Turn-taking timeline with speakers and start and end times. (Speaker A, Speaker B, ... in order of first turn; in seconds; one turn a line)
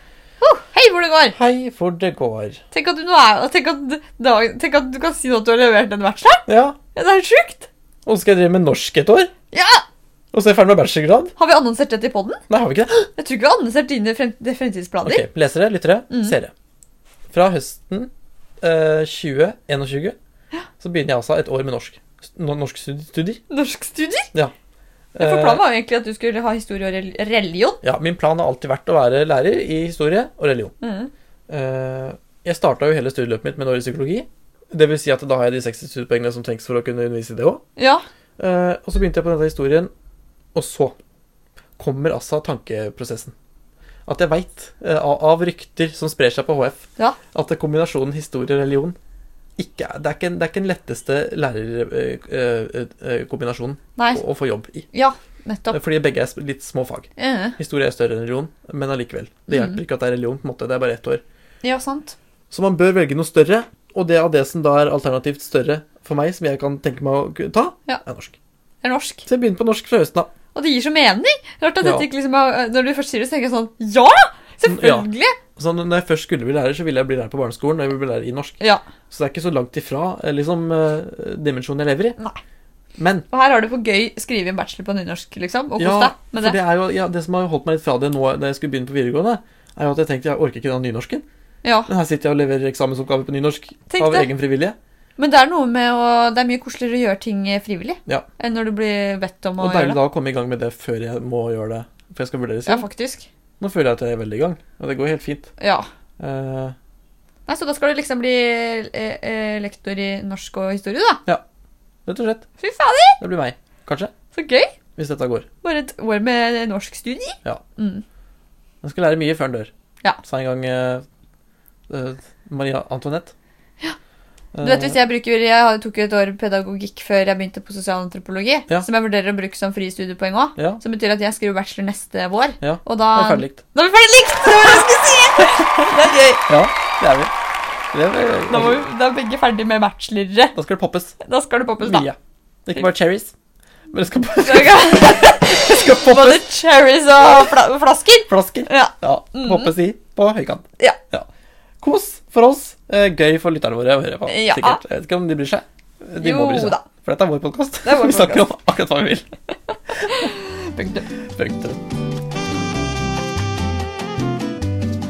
Speaker A: 0.4-1.4
Speaker B: 1.3-2.6
Speaker A: 2.7-7.7
Speaker B: 6.5-6.8
Speaker B: 8.1-9.3
Speaker A: 9.5-9.8
Speaker B: 10.3-11.3
Speaker A: 11.4-12.4
Speaker B: 12.5-13.1
Speaker A: 13.2-15.2
Speaker B: 15.1-16.5
Speaker A: 16.1-16.4
Speaker B: 17.3-18.1
Speaker B: 18.6-20.2
Speaker B: 20.8-23.4
Speaker A: 23.5-24.3
Speaker B: 25.1-25.6
Speaker A: 25.2-27.8
Speaker B: 27.8-30.7
Speaker A: 30.8-31.1
Speaker B: 31.5-37.6
Speaker A: 37.8-38.0
Speaker B: 38.4-39.9
Speaker B: 40.5-41.0
Speaker B: 41.8-43.3
Speaker B: 44.1-49.0
Speaker B: 49.6-54.9
Speaker A: 54.0-54.2
Speaker A: 54.9-55.8
Speaker B: 55.7-61.2
Speaker A: 57.2-57.6
Speaker A: 59.5-59.8
Speaker A: 61.6-62.2
Speaker B: 62.5-68.3
Speaker A: 68.8-69.3
Speaker B: 69.3-70.3
Speaker A: 70.5-75.4
Speaker B: 71.8-72.1
Speaker B: 74.7-82.2
Speaker B: 83.0-83.3
Speaker A: 83.3-86.6
Speaker B: 85.8-91.2
Speaker A: 91.6-91.9
Speaker B: 91.9-94.8
Speaker A: 93.9-94.3
Speaker A: 95.2-100.0
Speaker B: 99.6-102.9
Speaker A: 102.7-103.3
Speaker B: 103.6-105.5
Speaker A: 105.6-105.9
Speaker B: 106.2-106.8
Speaker A: 107.5-111.2
Speaker B: 112.1-112.5
Speaker A: 112.6-113.2
Speaker B: 113.2-114.1
Speaker A: 114.3-114.7
Speaker B: 115.0-115.5
Speaker A: 115.6-118.0
Speaker B: 118.8-119.7
Speaker B: 120.2-121.0
Speaker B: 121.9-123.3
Speaker B: 124.5-125.0
Speaker A: 124.6-136.5
Speaker B: 130.6-130.8
Speaker B: 132.6-133.6
Speaker B: 136.5-137.3
Speaker B: 137.9-138.9
Speaker A: 138.5-140.6
Speaker B: 140.6-141.2
Speaker A: 141.2-142.1
Speaker B: 141.8-143.3
Speaker B: 143.9-146.4
Speaker A: 144.4-149.7
Speaker B: 148.3-151.3
Speaker B: 151.8-159.3
Speaker A: 154.3-154.8
Speaker A: 156.2-156.8
Speaker A: 157.8-158.5
Speaker A: 159.9-161.1
Speaker B: 161.3-161.8